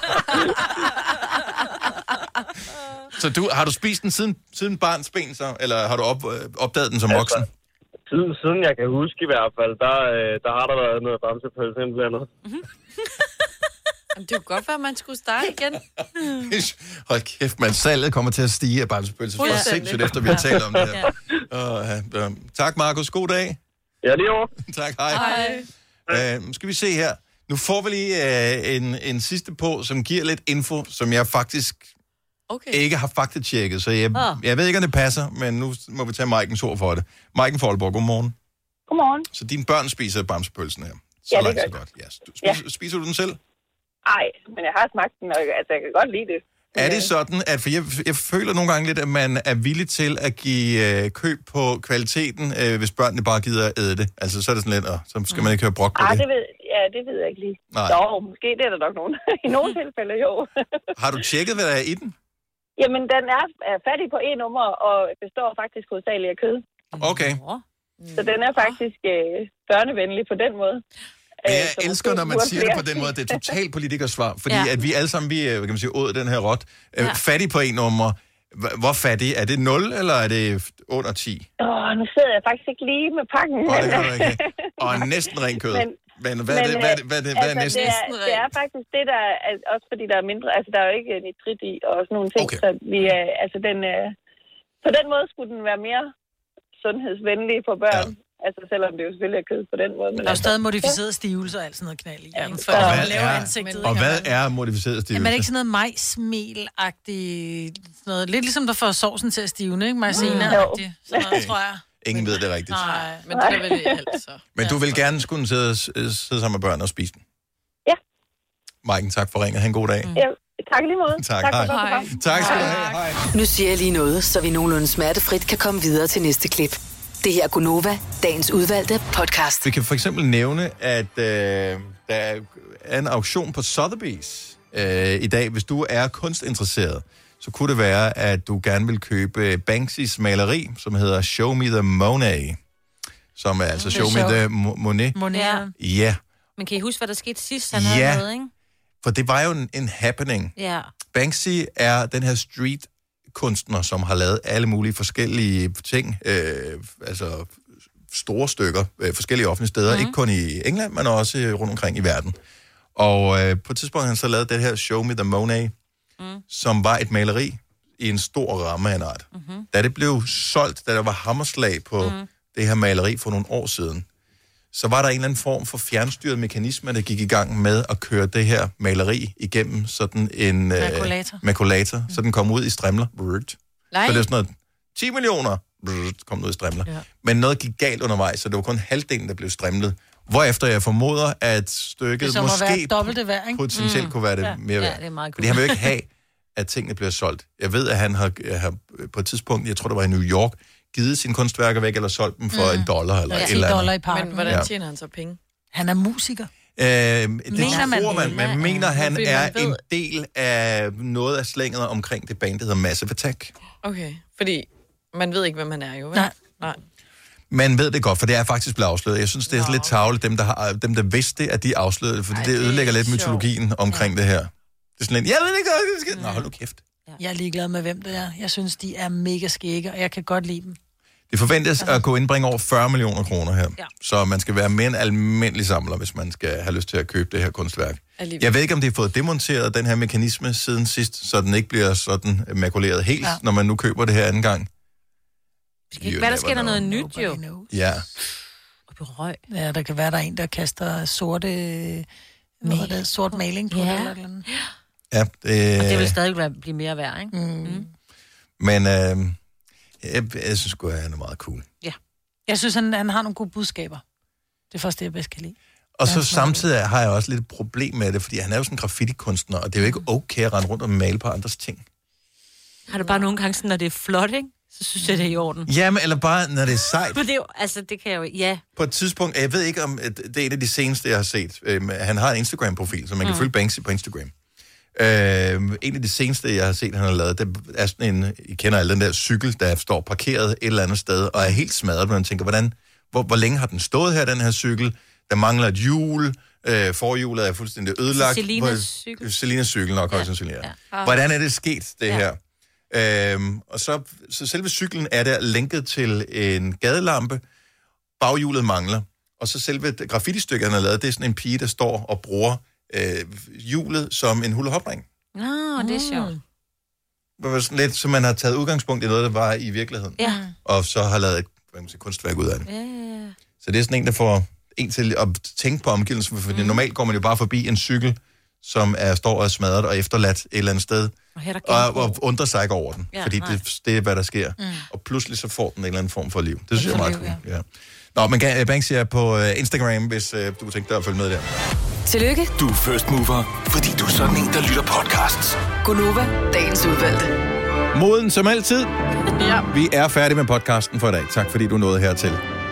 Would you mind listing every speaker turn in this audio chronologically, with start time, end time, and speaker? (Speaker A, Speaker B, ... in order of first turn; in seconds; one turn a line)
Speaker A: 3.1-7.5
Speaker B: 7.1-7.4
Speaker B: 8.1-12.3
Speaker C: 14.1-15.8
Speaker A: 16.2-23.6
Speaker C: 19.4-20.6
Speaker B: 24.0-24.5
Speaker A: 24.6-25.4
Speaker C: 25.1-25.7
Speaker D: 25.1-25.5
Speaker A: 26.1-31.9
Speaker C: 32.5-32.8
Speaker A: 32.7-38.3
Speaker D: 34.1-34.4
Speaker E: 38.9-39.2
Speaker A: 39.3-43.4
Speaker E: 41.3-41.7
Speaker E: 44.0-47.1
Speaker A: 46.7-56.2
Speaker E: 56.0-60.5
Speaker A: 57.7-58.0
Speaker A: 61.0-62.1
Speaker E: 62.8-66.6
Speaker D: 66.9-67.6
Speaker A: 67.0-67.4
Speaker C: 68.0-68.8
Speaker E: 68.1-70.8
Speaker E: 71.4-73.4
Speaker A: 71.5-81.5
Speaker E: 81.6-86.0
Speaker A: 83.7-88.0
Speaker E: 86.5-94.1
Speaker C: 87.6-88.5
Speaker A: 92.4-92.6
Speaker E: 94.8-96.1
Speaker E: 96.8-101.0
Speaker F: 100.2-104.3
Speaker C: 102.5-104.1
Speaker E: 102.7-103.0
Speaker A: 102.7-105.5
Speaker F: 105.1-113.3
Speaker D: 110.1-110.6
Speaker C: 110.2-110.5
Speaker E: 110.2-111.4
Speaker A: 111.2-112.9
Speaker C: 112.8-115.0
Speaker E: 113.3-114.1
Speaker A: 114.5-117.2
Speaker A: 118.8-120.1
Speaker E: 120.1-122.1
Speaker A: 121.2-123.2
Speaker C: 121.5-122.8
Speaker F: 122.3-122.9
Speaker G: 123.3-129.7
Speaker A: 129.6-142.6
Speaker A: 143.3-145.2
Speaker D: 143.8-144.2
Speaker F: 143.9-144.4
Speaker F: 145.1-145.7
Speaker D: 145.3-145.7
Speaker A: 145.8-146.2
Speaker D: 146.6-148.5
Speaker A: 147.7-148.3
Speaker A: 149.0-150.5
Speaker D: 150.6-150.9
Speaker A: 151.1-157.6
Speaker A: 158.1-162.4
Speaker D: 159.9-160.2
Speaker A: 162.9-165.7
Speaker A: 166.5-174.1
Speaker D: 169.3-169.7
Speaker D: 172.0-172.3
Speaker A: 174.7-204.7
Speaker F: 180.8-181.4
Speaker C: 183.9-184.3
Speaker F: 192.2-193.6
Speaker D: 193.7-195.8
Speaker F: 202.5-204.7
Speaker C: 204.1-205.4
Speaker F: 205.7-206.5
Speaker A: 206.8-213.5
Speaker F: 207.5-208.6
Speaker D: 207.6-208.8
Speaker C: 208.7-209.8
Speaker C: 213.8-216.8
Speaker A: 217.5-226.8
Speaker C: 219.5-220.0
Speaker C: 222.3-223.5
Speaker F: 227.2-230.8
Speaker A: 231.3-244.7
Speaker C: 238.2-238.5
Speaker D: 245.9-247.4
Speaker A: 246.0-246.8
Speaker F: 246.7-247.7
Speaker A: 247.7-248.1
Speaker D: 248.9-249.4
Speaker F: 249.5-252.1
Speaker F: 252.6-254.4
Speaker D: 252.6-254.7
Speaker A: 255.1-256.2
Speaker D: 255.8-257.9
Speaker F: 257.3-257.9
Speaker A: 258.6-259.4
Speaker A: 260.0-261.7
Speaker F: 262.5-264.0
Speaker F: 264.7-266.6
Speaker A: 266.0-271.8
Speaker D: 272.9-275.7
Speaker F: 275.0-275.3
Speaker A: 275.6-277.2
Speaker D: 276.7-278.6
Speaker A: 278.8-284.3
Speaker D: 283.2-283.5
Speaker A: 284.9-302.4
Speaker D: 298.1-299.3
Speaker D: 300.1-300.7
Speaker C: 300.9-301.2
Speaker A: 302.9-307.4
Speaker A: 308.2-315.1
Speaker D: 315.3-316.3
Speaker C: 315.8-316.4
Speaker A: 317.4-322.7
Speaker D: 320.2-320.4
Speaker F: 320.2-320.5
Speaker D: 322.7-323.4
Speaker A: 323.6-341.5
Speaker D: 326.5-326.8
Speaker D: 331.4-332.2
Speaker D: 333.1-333.6
Speaker F: 334.6-334.9
Speaker F: 336.7-337.4
Speaker G: 342.1-342.5
Speaker H: 342.6-345.6
Speaker G: 345.8-347.3
Speaker A: 347.9-348.9
Speaker C: 349.2-349.7
Speaker A: 349.7-352.4